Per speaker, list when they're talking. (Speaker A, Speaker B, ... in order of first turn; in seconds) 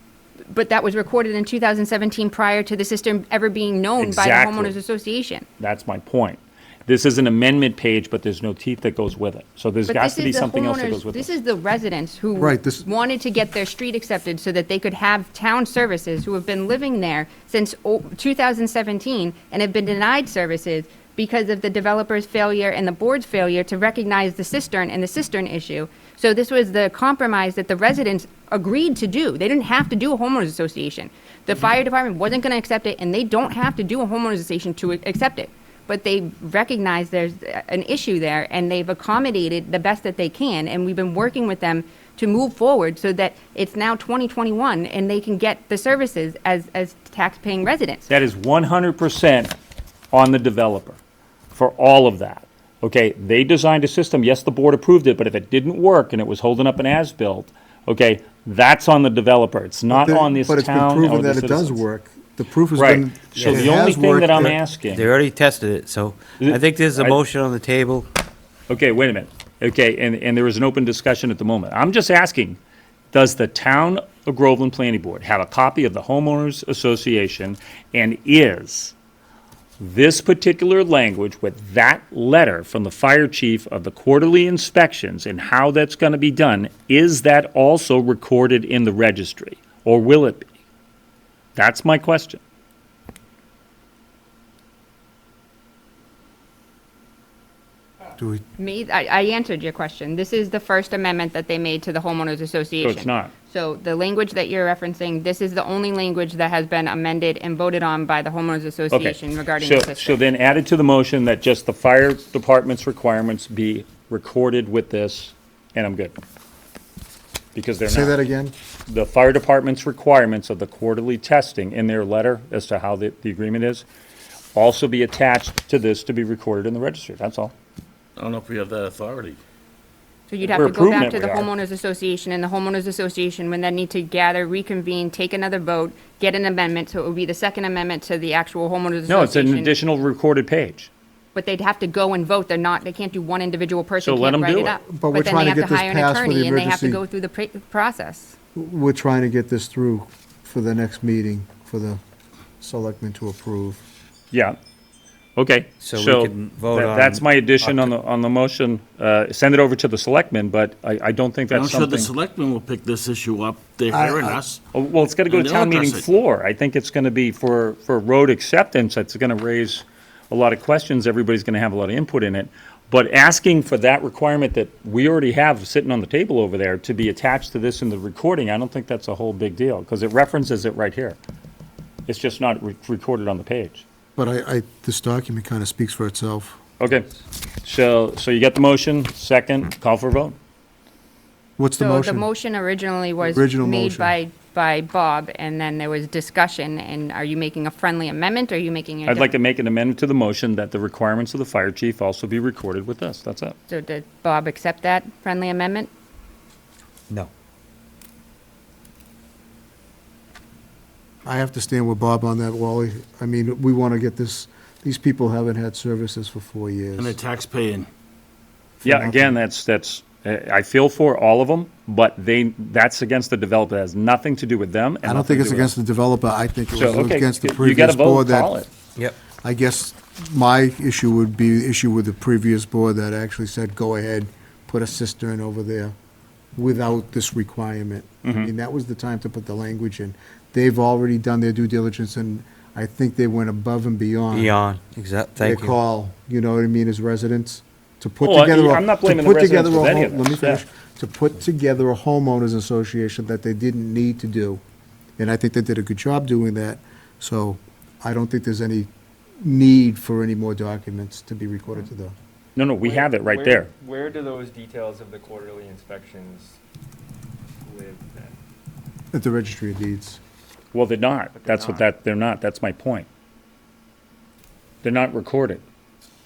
Speaker A: 0.5-5.5, 9.9-48.1, 98.6-110.2, 130.3-139.7, 141.3-148.4, 191.8-199.3, 203.7-205.9
Speaker B: 4.0-4.8, 5.6-11.3, 48.1-49.5, 50.1-51.0, 51.5-61.8, 62.8-65.0, 66.4-67.2, 68.7-72.6, 73.1-78.9, 79.8-90.5, 91.6-92.4, 102.8-103.3, 108.9-116.2, 117.5-118.2, 118.9-123.9, 124.5-127.5, 130.5-131.5, 139.1-140.9, 144.0-144.8, 154.3-154.6, 155.4-162.1, 164.7-181.2, 182.1-183.8, 186.8-187.1, 187.6-190.4, 199.1-203.6, 218.8-225.8, 226.7-228.7, 238.2-238.5, 248.2-250.6, 262.6-263.7, 270.7-273.1, 274.8-275.6
Speaker C: 12.4-12.9, 59.9-64.6, 98.2-98.4, 117.9-118.5, 144.9-147.0, 148.6-152.0, 152.6-153.8, 163.9-164.4, 184.2-186.6, 191.6-192.3, 193.2-194.2, 211.2-217.2, 218.8-219.4, 225.0-228.6, 229.4-235.9, 236.6-244.6, 245.4-254.6, 255.2-258.9, 259.4-262.1, 269.1-270.2
Speaker D: 63.4-63.7, 64.9-68.1, 155.8-157.2, 244.3-245.8
Speaker E: 128.2-129.4, 161.5-164.6, 165.3-166.1, 217.0-217.9
Speaker F: 262.8-266.5, 267.7-268.3, 271.4-271.9